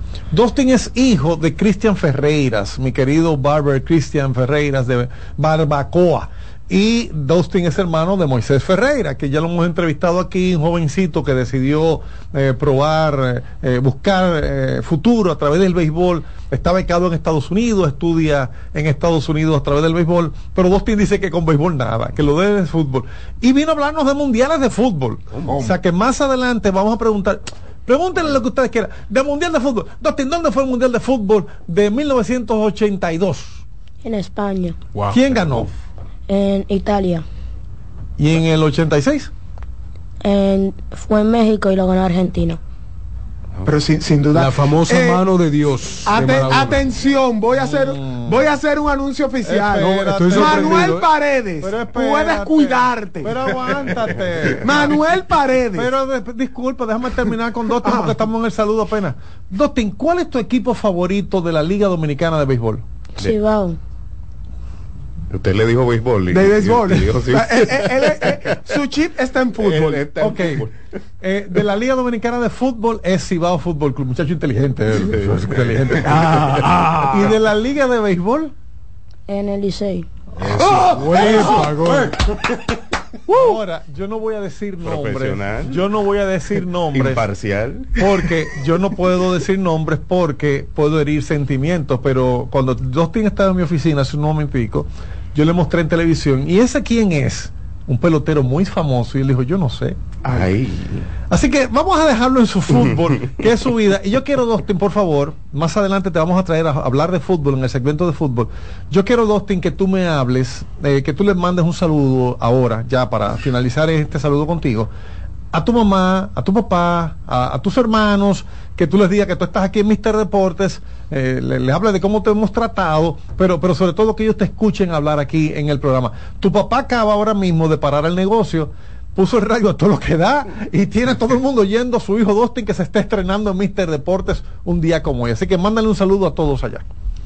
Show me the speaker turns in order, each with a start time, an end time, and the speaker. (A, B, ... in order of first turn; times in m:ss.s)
0:00.3-0:33.6 A
0:34.0-0:34.8 B
0:34.9-0:35.5 C
0:35.1-0:35.7 A
0:36.3-0:37.2 B
0:38.2-0:39.3 A
0:40.2-0:42.6 B
0:43.6-0:45.3 D
0:44.3-0:46.8 C
0:46.1-0:53.8 D
0:47.5-0:48.5 A
0:49.4-0:51.1 A
0:50.0-0:51.0 C
0:51.6-0:55.0 A
0:54.6-0:55.9 D
0:55.7-1:02.8 A
0:57.8-0:58.2 D
1:03.2-1:03.8 B
1:05.3-1:08.8 E
1:06.3-1:10.0 D
1:09.6-1:10.7 E
1:10.2-1:10.6 A
1:11.2-1:16.4 A
1:15.0-1:16.2 E
1:16.0-1:17.3 D
1:17.1-1:18.5 A
1:19.3-1:20.1 B
1:20.8-1:22.1 C
1:20.9-1:22.1 A
1:23.3-1:27.2 A
1:24.8-1:25.8 E
1:26.9-1:28.0 E
1:28.0-1:40.0 A
1:40.2-1:41.0 E
1:41.3-1:54.9 A
1:55.5-2:16.8 A